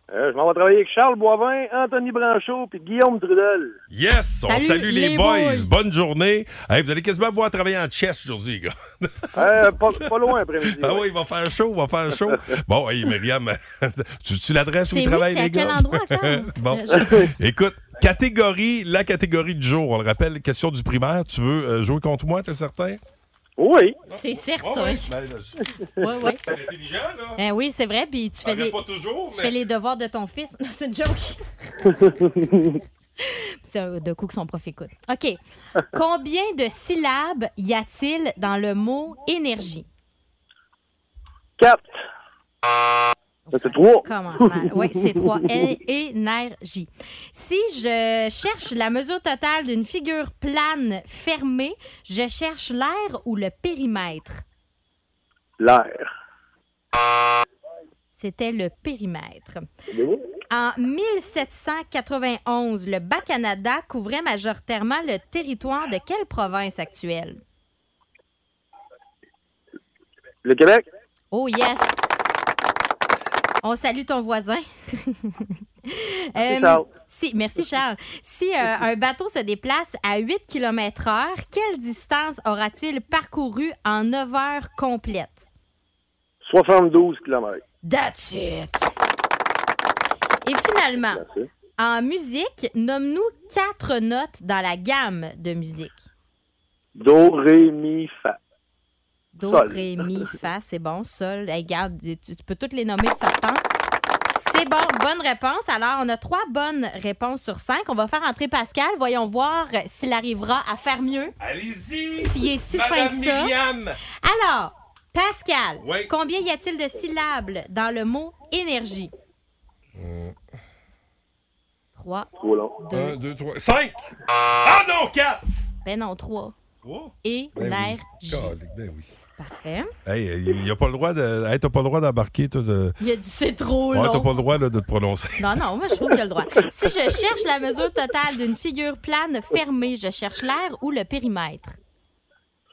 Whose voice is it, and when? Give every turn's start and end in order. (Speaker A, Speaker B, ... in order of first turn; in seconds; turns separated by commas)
Speaker A: 0.1-3.8, Speaker B: 3.9-10.0, Speaker C: 4.5-5.7, Speaker A: 9.3-11.1, Speaker B: 10.6-23.0, Speaker C: 14.8-17.3, Speaker A: 23.6-24.0, Speaker B: 24.1-27.4, Speaker C: 24.2-25.1, Speaker C: 26.0-26.4, Speaker C: 27.4-28.8, Speaker B: 28.4-29.5, Speaker C: 29.3-31.4, Speaker A: 31.9-32.8, Speaker C: 33.2-35.4, Speaker C: 35.9-39.9, Speaker A: 41.6-41.9, Speaker C: 43.5-54.4, Speaker A: 43.5-45.5, Speaker A: 55.6-56.1, Speaker C: 58.1-59.6, Speaker A: 59.9-60.2, Speaker C: 60.5-67.4, Speaker A: 70.4-70.8, Speaker C: 71.3-71.9, Speaker C: 73.6-85.5, Speaker A: 76.4-76.8, Speaker A: 86.4-87.6, Speaker C: 87.8-88.9, Speaker C: 90.4-91.2, Speaker A: 91.2-91.5, Speaker C: 91.8-96.1, Speaker A: 97.0-98.4, Speaker C: 99.3-103.6, Speaker A: 99.4-99.8, Speaker C: 104.3-111.3, Speaker B: 111.4-114.0, Speaker C: 112.2-113.5, Speaker C: 114.2-119.1, Speaker B: 115.8-116.1, Speaker B: 119.9-120.3, Speaker C: 122.0-123.2, Speaker A: 122.4-122.7, Speaker B: 122.9-125.4, Speaker C: 125.8-126.5, Speaker B: 126.8-129.1, Speaker C: 127.2-128.5, Speaker C: 129.4-129.9, Speaker B: 130.1-133.0, Speaker C: 133.0-134.3, Speaker B: 133.9-135.6, Speaker C: 135.4-141.8